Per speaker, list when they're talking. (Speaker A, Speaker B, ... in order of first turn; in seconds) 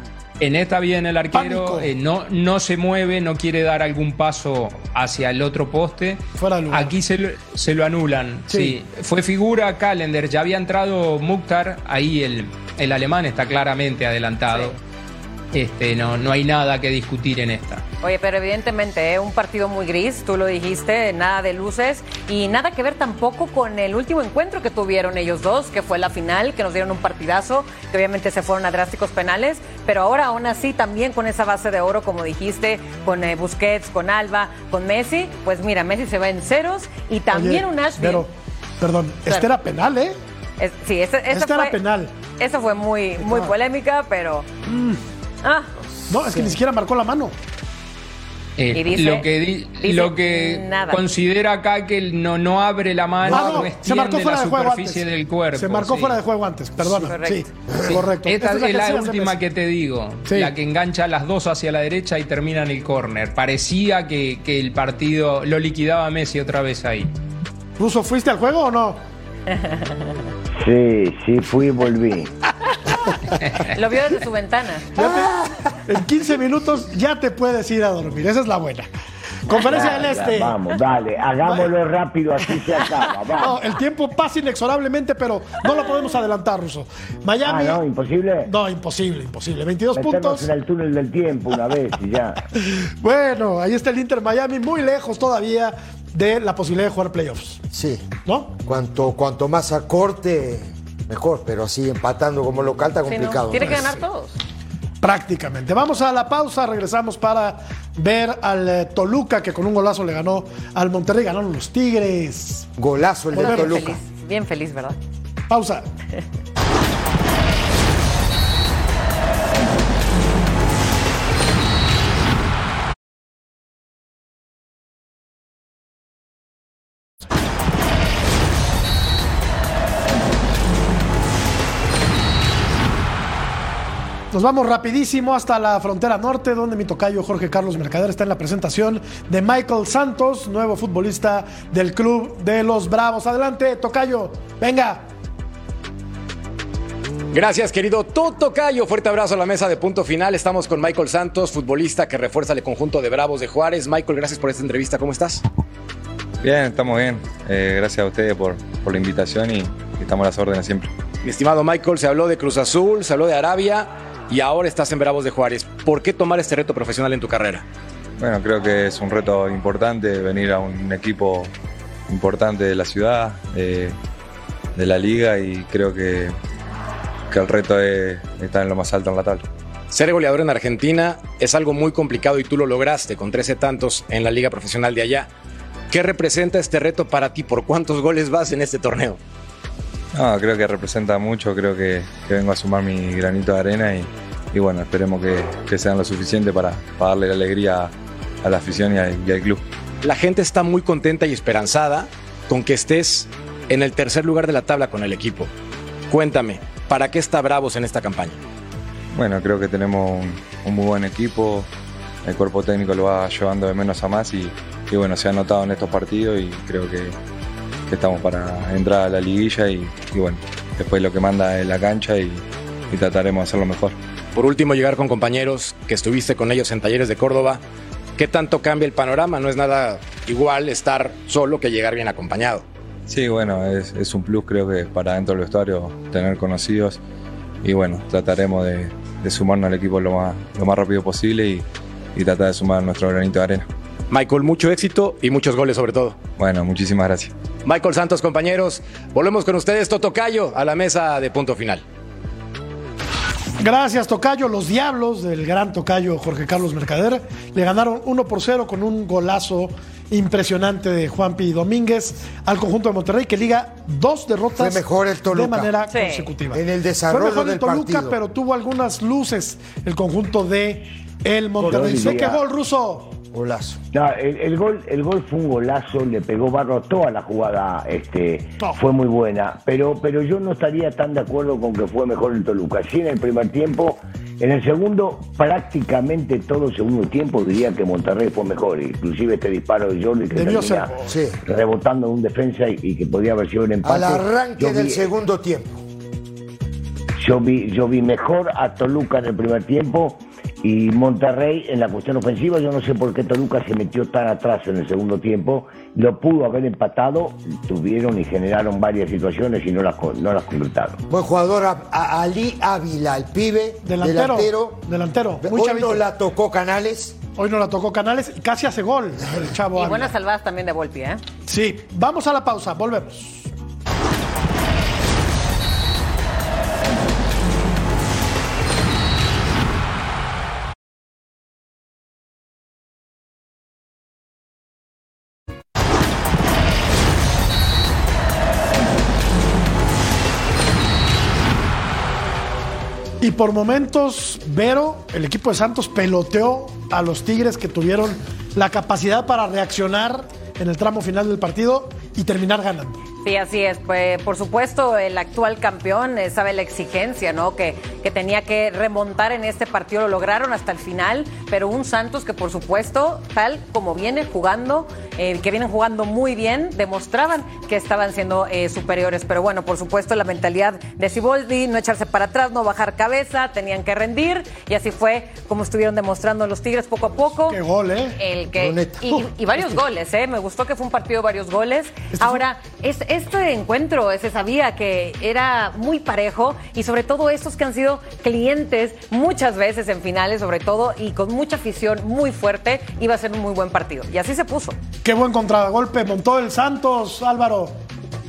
Speaker A: 0.4-14.8, 15.5-17.8, 48.6-56.2, 58.2-67.1, 73.4-73.7
Speaker B: 1.3-1.9, 6.4-7.0, 8.5-8.8, 37.3-40.1, 41.3-42.1, 44.6-45.0, 46.1-47.3, 53.2-55.0, 55.5-59.4, 60.3-60.5, 67.8-69.0, 74.9-78.9, 79.5-80.6, 81.4-81.7, 83.3-87.8, 88.4-90.5, 92.6-97.6, 98.2-98.5, 105.0-112.7, 113.3-113.8, 115.5-115.8, 134.3-145.0, 253.6-273.1, 290.3-291.1, 313.8-316.0, 317.4-320.1, 321.4-323.5, 343.2-353.0, 377.5-378.2, 382.1-382.4, 395.0-397.7
Speaker C: 14.5-14.8, 18.0-38.2, 40.6-41.8, 42.4-44.5, 45.4-45.7, 48.7-49.3, 49.8-51.0, 56.8-57.4, 73.7-74.9, 103.1-104.4, 113.3-115.0, 265.9-266.3, 319.7-321.2, 353.2-377.6, 378.1-394.8
Speaker D: 43.2-43.5, 46.2-46.5, 53.3-53.7, 57.7-58.0, 75.0-75.5, 97.7-98.1, 98.6-103.9, 112.8-114.0, 264.6-265.7, 266.5-268.1, 271.8-272.1, 273.3-273.8, 291.1-291.4, 293.8-295.8, 311.1-314.8, 315.4-317.2, 378.6-379.3
Speaker E: 70.6-72.3, 79.5-83.6, 87.4-88.5, 89.9-92.4, 271.6-272.4, 273.9-290.9, 291.4-295.1, 297.2-311.0
Speaker F: 147.3-155.4, 161.2-167.6, 179.9-185.3, 185.9-189.2, 200.0-205.5, 206.1-208.4, 224.3-227.6, 228.2-232.6, 244.1-246.2, 247.6-251.8
Speaker G: 156.4-160.9, 168.2-171.5, 172.1-173.9, 174.7-176.3, 177.3-179.4, 190.1-197.9, 198.4-199.6, 209.1-211.7, 212.2-217.1, 217.9-223.9, 233.1-237.0, 237.6-243.7, 246.3-247.3